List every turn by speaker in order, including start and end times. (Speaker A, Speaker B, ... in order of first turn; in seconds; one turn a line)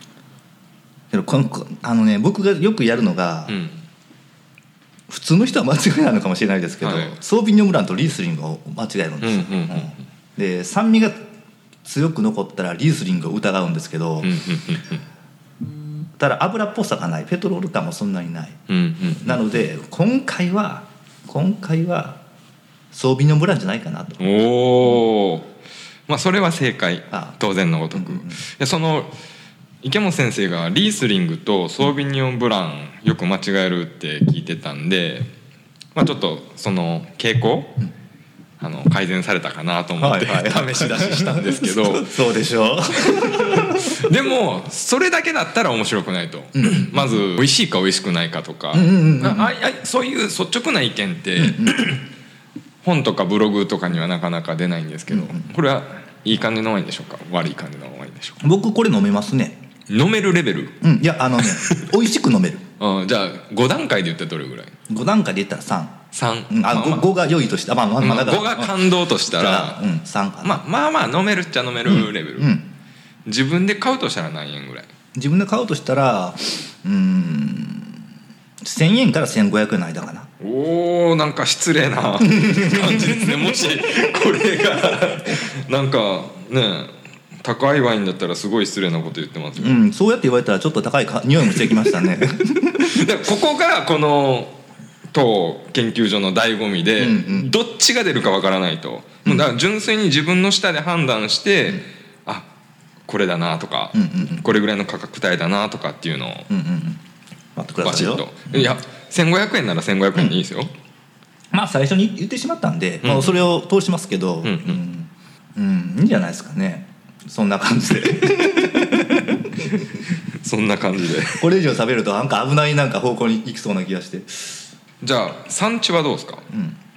Speaker A: 1.1-3.5
Speaker B: 3.5-3.8
Speaker A: 5.1-11.2
Speaker B: 6.8-7.2
Speaker B: 9.2-10.0
Speaker A: 11.8-14.3
Speaker B: 14.2-15.0
Speaker A: 16.2-22.2
Speaker B: 18.7-19.5
Speaker A: 22.9-24.2
Speaker B: 24.2-25.5
Speaker B: 26.1-29.1
Speaker A: 27.9-28.4
Speaker B: 29.8-35.3
Speaker B: 35.9-37.8
Speaker B: 38.6-42.1
Speaker A: 40.0-44.0
Speaker B: 43.0-52.1
Speaker A: 46.5-47.2
Speaker A: 48.7-49.5
Speaker A: 51.4-51.8
Speaker B: 52.8-58.4
Speaker A: 55.1-55.5
Speaker A: 58.4-59.6
Speaker B: 59.9-60.8
Speaker A: 60.8-62.6
Speaker B: 61.4-61.9
Speaker B: 62.8-64.8
Speaker A: 64.9-66.0
Speaker B: 66.1-67.1
Speaker A: 66.5-70.6
Speaker B: 68.0-69.8
Speaker B: 70.4-72.5
Speaker A: 71.8-72.7
Speaker B: 73.2-74.9
Speaker A: 75.1-78.0
Speaker A: 78.6-80.3
Speaker B: 80.4-89.8
Speaker A: 82.2-83.7
Speaker A: 89.6-93.0
Speaker B: 92.7-94.6
Speaker B: 95.1-102.5
Speaker A: 97.0-97.5
Speaker B: 103.1-106.5
Speaker A: 103.9-104.5
Speaker A: 106.5-107.0
Speaker A: 107.5-108.7
Speaker B: 107.8-110.7
Speaker A: 111.5-119.9
Speaker B: 113.0-113.4
Speaker B: 114.4-114.8
Speaker B: 118.3-121.5
Speaker A: 121.4-124.7
Speaker B: 125.0-126.5
Speaker A: 126.5-126.8